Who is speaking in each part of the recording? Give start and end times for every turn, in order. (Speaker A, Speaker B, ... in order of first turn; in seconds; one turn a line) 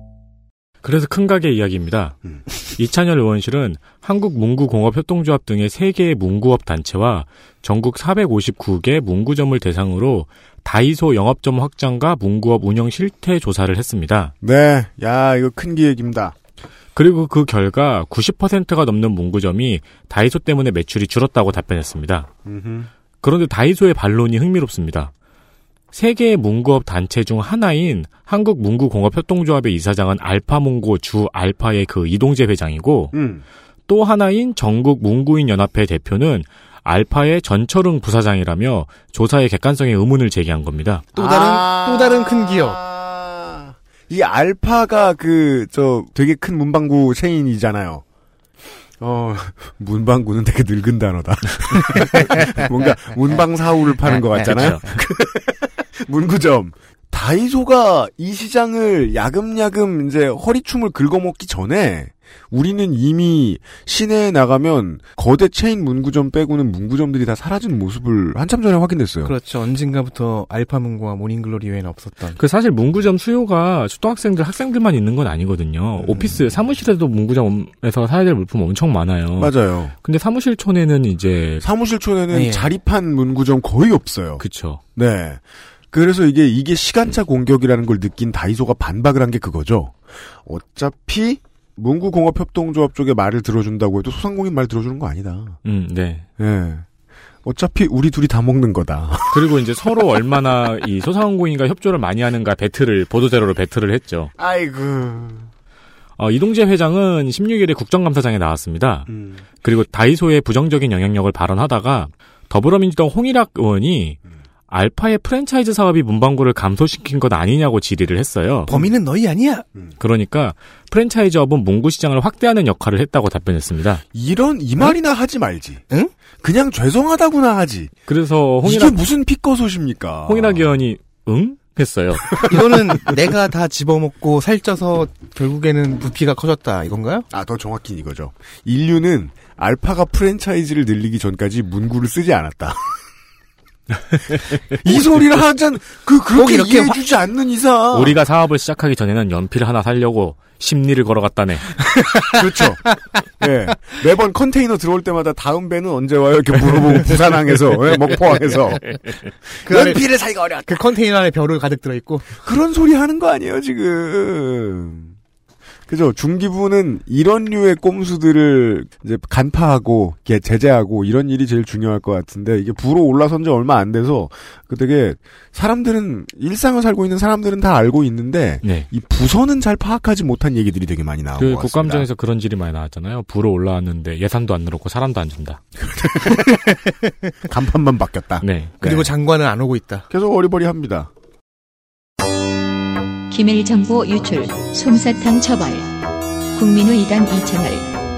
Speaker A: 0.8-14.3
Speaker B: 14.4-16.3
Speaker A: 16.9-22.3
Speaker B: 22.4-22.9
Speaker A: 23.2-25.1
Speaker A: 25.9-33.1
Speaker B: 33.1-33.4
Speaker A: 33.9-41.1
Speaker C: 41.1-42.8
Speaker B: 41.1-48.0
Speaker B: 49.0-69.3
Speaker C: 54.1-54.7
Speaker A: 54.4-54.8
Speaker C: 69.2-72.4
Speaker A: 72.3-81.7
Speaker B: 76.0-76.4
Speaker B: 79.4-79.9
Speaker B: 81.6-84.4
Speaker C: 82.3-82.7
Speaker A: 84.4-84.8
Speaker B: 85.0-95.6
Speaker A: 95.6-96.2
Speaker B: 96.4-96.8
Speaker B: 97.4-99.6
Speaker A: 99.3-104.3
Speaker B: 104.4-105.5
Speaker A: 106.2-109.1
Speaker B: 109.1-109.4
Speaker A: 109.6-114.2
Speaker A: 114.7-118.7
Speaker C: 118.7-119.7
Speaker A: 120.0-124.0
Speaker B: 124.1-125.8
Speaker B: 126.4-127.9
Speaker A: 128.1-129.0
Speaker B: 128.6-130.7
Speaker A: 130.2-132.4
Speaker B: 132.3-133.1
Speaker C: 132.5-137.3
Speaker B: 137.3-143.0
Speaker B: 144.7-148.2
Speaker C: 146.3-147.0
Speaker A: 147.9-151.8
Speaker C: 151.9-152.4
Speaker B: 152.3-152.8
Speaker B: 153.4-160.8
Speaker C: 159.6-160.0
Speaker C: 160.6-162.3
Speaker B: 162.4-165.1
Speaker B: 165.9-182.1
Speaker A: 178.6-178.9
Speaker A: 181.4-185.6
Speaker B: 185.8-186.5
Speaker B: 187.4-189.0
Speaker A: 188.4-188.8
Speaker C: 188.8-190.1
Speaker B: 190.1-191.1
Speaker D: 193.3-196.0
Speaker D: 196.5-198.0